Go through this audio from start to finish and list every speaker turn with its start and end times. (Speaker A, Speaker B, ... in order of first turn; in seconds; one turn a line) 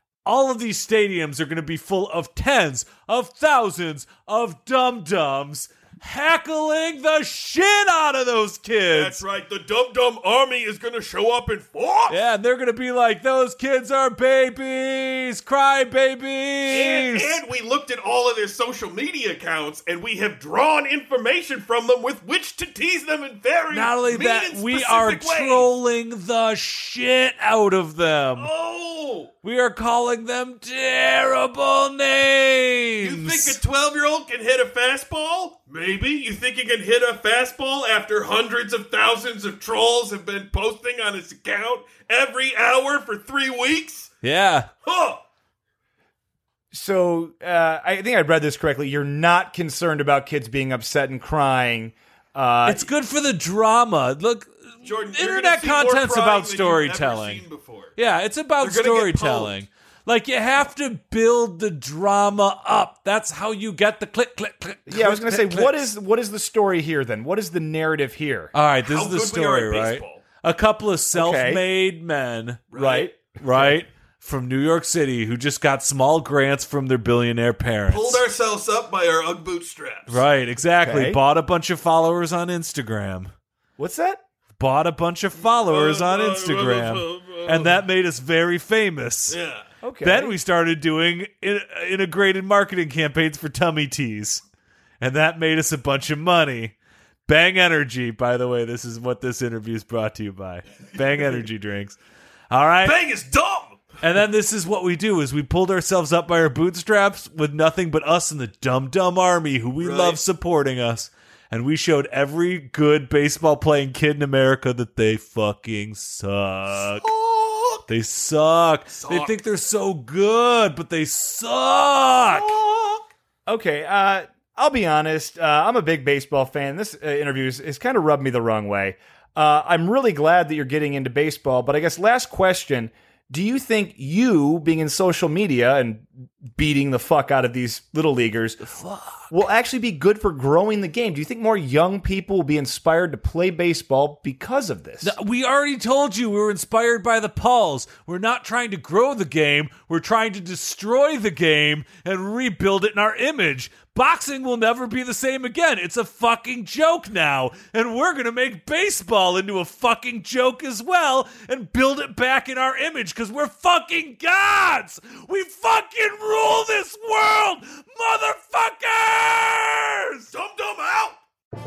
Speaker A: 0.2-9.2
Speaker B: 8.9-12.2
Speaker A: 12.1-17.4
Speaker B: 16.7-25.7
Speaker A: 23.7-28.5
Speaker B: 28.4-29.3
Speaker A: 29.4-33.6
Speaker B: 33.0-44.1
Speaker A: 44.2-44.7
Speaker B: 44.9-45.2
Speaker C: 46.7-52.9
Speaker A: 52.6-57.4
Speaker B: 54.8-58.0
Speaker A: 58.0-65.9
Speaker B: 58.6-59.6
Speaker C: 64.9-68.5
Speaker A: 68.5-72.6
Speaker B: 68.8-70.2
Speaker C: 71.1-71.6
Speaker B: 72.7-73.1
Speaker C: 72.7-73.8
Speaker A: 73.4-78.2
Speaker B: 77.9-80.2
Speaker A: 80.1-83.3
Speaker C: 80.8-81.2
Speaker C: 83.8-84.2
Speaker A: 84.6-89.4
Speaker B: 85.4-87.8
Speaker B: 89.3-89.7
Speaker C: 89.8-90.4
Speaker A: 90.0-94.4
Speaker A: 95.0-96.8
Speaker A: 97.2-102.0
Speaker A: 102.5-103.0
Speaker B: 102.8-103.8
Speaker A: 104.0-117.0
Speaker B: 109.8-110.2
Speaker B: 116.7-117.9
Speaker A: 117.9-122.5
Speaker B: 119.0-119.3
Speaker B: 122.3-123.1
Speaker C: 123.5-138.6
Speaker A: 138.6-139.3
Speaker C: 139.3-145.1
Speaker A: 145.0-170.3
Speaker B: 170.3-171.2